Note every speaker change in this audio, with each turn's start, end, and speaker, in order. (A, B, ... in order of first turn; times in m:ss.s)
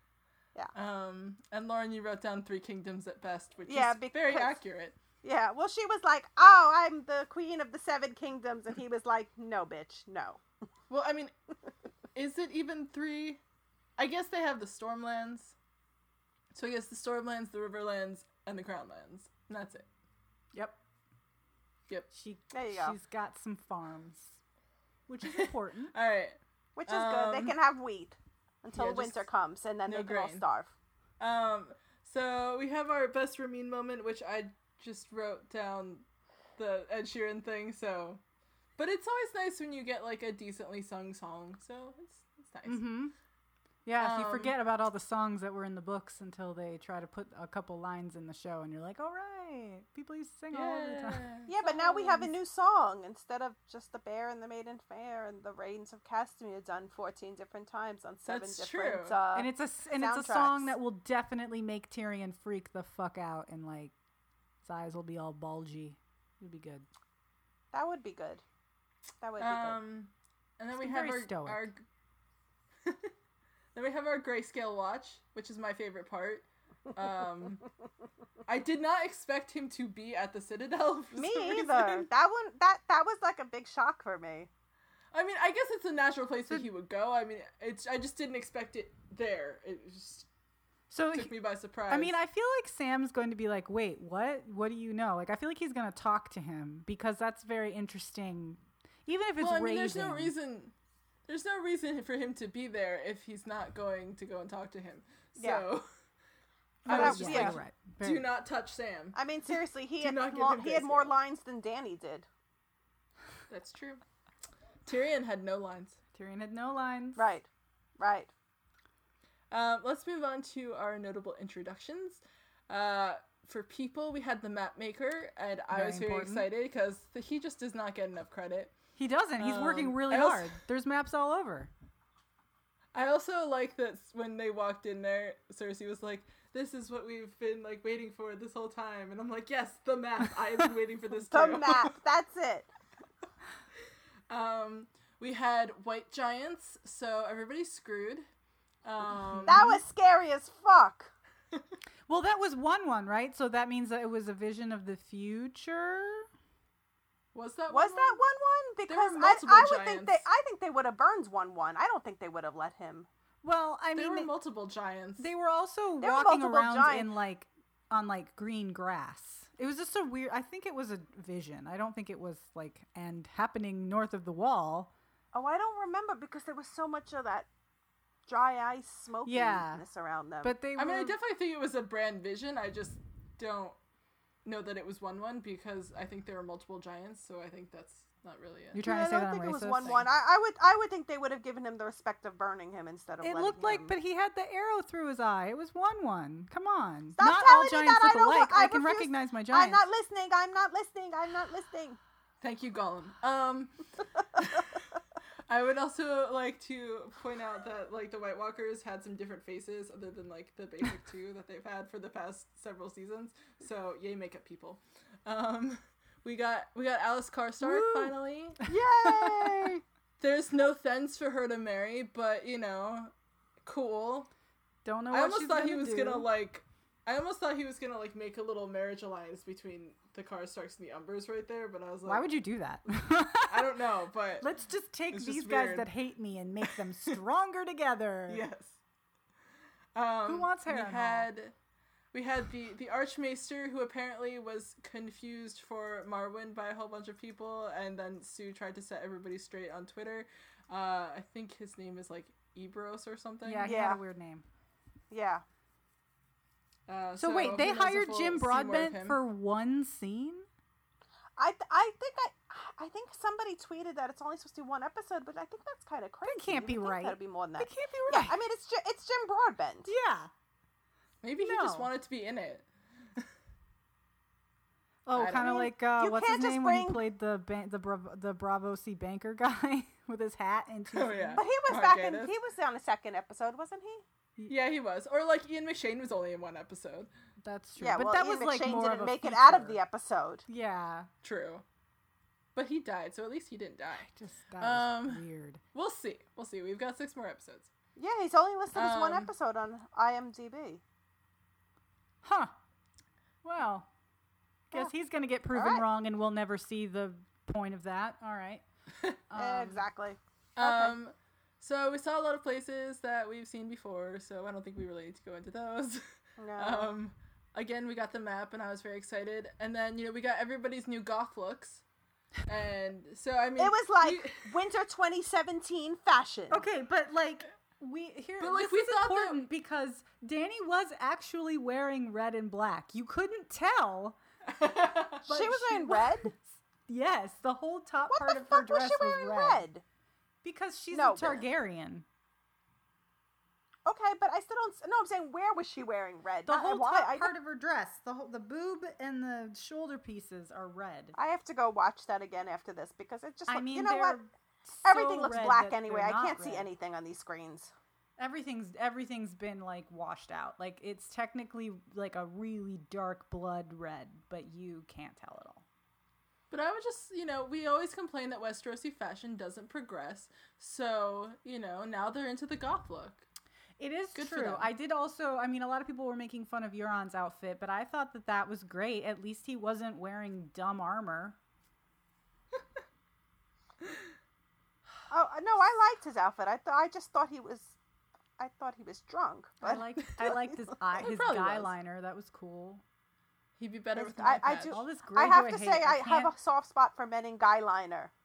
0:00.7-0:05.0 A
0:03.7-0:04.6 B
0:05.2-0:10.4 B
0:10.9-0:11.3 A
0:12.2-0:13.4 A
0:14.0-0:15.6 A
0:16.5-0:19.8 A
0:22.1-0:24.4 C
0:22.5-0:23.0 B
0:25.1-0:25.9 C
0:25.2-0:27.6 A
0:26.8-0:30.7 B
0:28.7-0:29.3 A
0:29.9-0:30.4 A
0:31.2-0:36.0 A
0:36.6-0:38.2 A
0:38.8-0:42.8 A
0:42.7-0:43.1 C
0:43.9-0:51.3 C
0:44.0-0:44.5 A
0:50.5-0:52.3 A
0:51.5-1:00.7 B
0:58.2-0:59.2 A
0:59.3-1:03.9 C
1:04.6-1:06.9 C
1:07.7-1:08.4 B
1:09.2-1:09.8 B
1:09.4-1:11.8 A
1:10.8-1:11.7 C
1:12.8-1:13.1 A
1:13.8-1:17.6 A
1:18.5-1:22.1 A
1:21.1-1:24.5 B
1:25.1-1:30.3 A
1:30.9-1:31.3 C
1:31.1-1:32.2 A
1:31.9-1:40.3 C
1:39.4-1:40.7 A
1:41.3-1:45.8 A
1:45.4-1:45.6 B
1:46.8-1:47.6 B
1:46.8-1:51.1 A
1:46.9-1:48.2 C
1:49.2-1:52.3 B
1:53.5-1:54.0 A
1:54.9-1:56.0 A
1:56.2-1:57.2 C
1:57.2-1:58.3 B
1:59.5-2:08.7 A
2:05.7-2:06.5 C
2:09.0-2:11.7 C
2:09.4-2:10.6 A
2:12.9-2:22.0 A
2:21.3-2:22.7 B
2:24.3-2:28.3 A
2:28.8-2:29.6 A
2:29.3-2:29.8 C
2:29.4-2:31.1 B
2:32.1-2:36.3 C
2:37.3-2:38.2 A
2:37.7-2:43.1 B
2:38.9-2:40.2 A
2:43.4-2:44.3 C
2:44.0-2:45.3 A
2:45.2-2:54.9 C
2:46.0-2:47.1 B
2:55.3-2:57.5 B
2:58.3-3:00.6 B
2:59.3-2:59.8 C
3:00.4-3:01.2 C
3:00.8-3:03.8 A
3:04.4-3:08.8 A
3:08.7-3:10.1 C
3:08.8-3:13.9 B
3:13.2-3:19.8 C
3:17.2-3:22.0 B
3:22.4-3:24.8 A
3:25.5-3:38.7 A
3:37.6-3:38.1 C
3:38.7-3:39.8 B
3:40.2-3:43.1 A
3:43.6-3:44.3 A
3:44.8-3:46.3 C
3:45.1-3:52.3 A
3:52.1-3:53.7 C
3:53.5-3:54.5 A
3:54.4-3:58.4 C
3:55.1-3:55.9 A
3:58.3-3:58.8 A
4:00.0-4:01.5 A
4:00.3-4:01.3 C
4:02.1-4:13.8 A
4:13.4-4:14.4 C
4:13.6-4:14.0 B
4:15.1-4:15.4 B
4:16.9-4:19.2 A
4:17.2-4:20.5 C
4:21.4-4:29.9 B
4:26.2-4:28.4 C
4:29.9-4:30.3 C
4:31.2-4:33.3 A
4:31.4-4:31.9 C
4:35.1-4:41.4 C
4:35.2-4:35.6 A
4:35.4-4:37.0 B
4:40.9-4:42.3 A
4:41.4-4:44.0 B
4:44.5-4:47.1 A
4:47.4-4:49.8 C
4:47.8-4:50.4 B
4:50.5-4:51.1 C
4:51.2-4:51.6 A
4:52.6-4:55.2 A
4:54.0-4:55.6 C
4:55.7-4:57.7 A
4:58.0-5:00.8 B
4:58.7-4:59.3 A
5:02.2-5:02.5 C
5:03.4-5:03.9 C
5:04.7-5:08.6 C
5:05.5-5:05.8 B
5:09.3-5:09.8 C
5:09.4-5:11.0 B
5:10.6-5:16.0 A
5:16.4-5:16.9 B
5:16.6-5:21.8 A
5:22.5-5:24.5 A
5:23.6-5:26.6 B
5:26.5-5:34.2 C
5:28.4-5:29.4 A
5:34.5-5:35.2 A
5:35.2-5:36.3 B
5:35.3-5:39.6 C
5:38.1-5:39.8 B
5:40.4-5:42.0 C
5:40.9-5:41.4 B
5:43.8-5:47.3 B
5:46.5-5:51.2 C
5:51.2-5:54.2 B
5:53.5-5:56.7 C
5:54.8-5:57.7 B
5:58.2-6:05.6 C
6:06.5-6:13.2 A
6:13.8-6:21.4 C
6:14.2-6:14.7 A
6:25.1-6:27.8 B
6:28.4-6:30.6 B
6:29.6-6:32.8 C
6:31.0-6:31.7 A
6:33.6-6:34.8 A
6:34.0-6:38.1 B
6:34.7-6:36.3 C